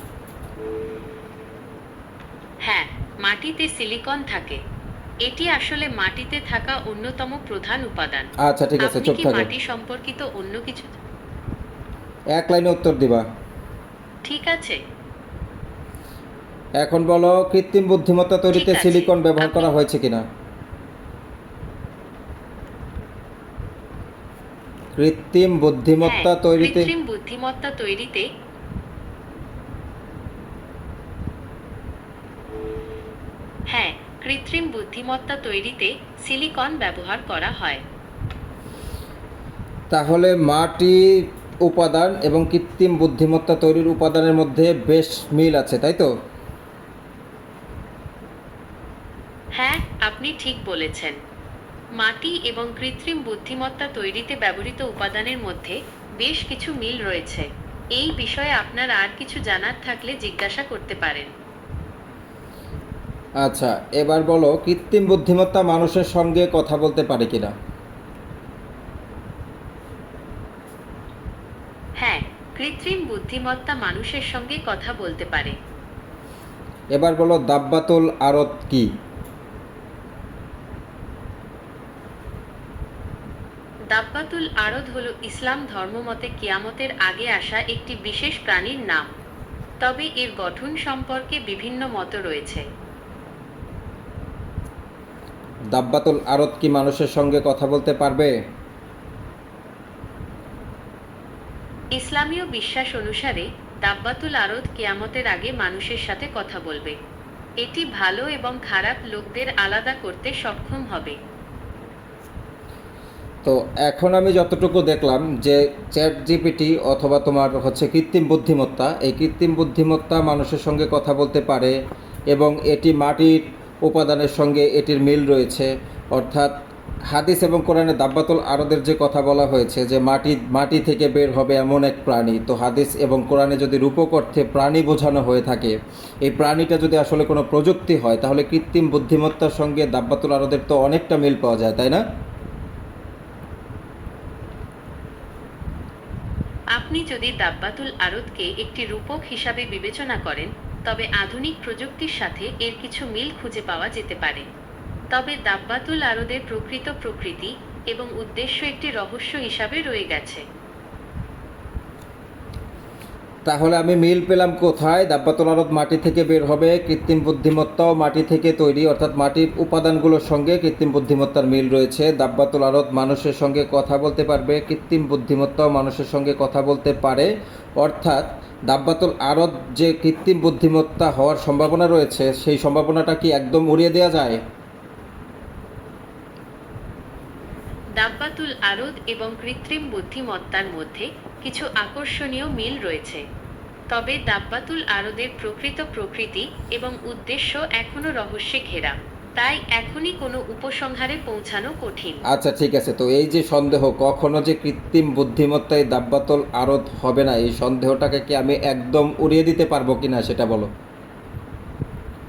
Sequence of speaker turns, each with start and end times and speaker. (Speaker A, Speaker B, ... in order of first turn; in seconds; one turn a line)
Speaker A: 2.6-4.6
Speaker A: 5.2-8.3
Speaker B: 8.4-9.5
Speaker A: 8.8-10.9
Speaker B: 12.3-13.2
Speaker A: 14.2-14.8
Speaker B: 16.8-20.2
Speaker A: 18.5-19.7
Speaker B: 24.9-26.9
Speaker A: 26.0-28.3
Speaker A: 33.7-37.8
Speaker B: 39.9-41.0
Speaker B: 41.6-46.1
Speaker A: 49.6-51.2
Speaker A: 52.0-61.3
Speaker B: 63.4-67.5
Speaker A: 72.0-75.5
Speaker B: 77.0-78.9
Speaker A: 83.9-89.1
Speaker A: 89.8-92.6
Speaker B: 95.7-98.3
Speaker A: 102.0-107.0
Speaker A: 107.6-111.2
Speaker B: 113.4-121.7
Speaker B: 122.3-126.5
Speaker B: 127.1-142.0
Speaker A: 146.8-154.4
Speaker A: 155.1-160.4
Speaker B: 163.4-184.4
Speaker A: 188.0-193.2
Speaker A: 193.9-202.2
Speaker B: 202.3-210.7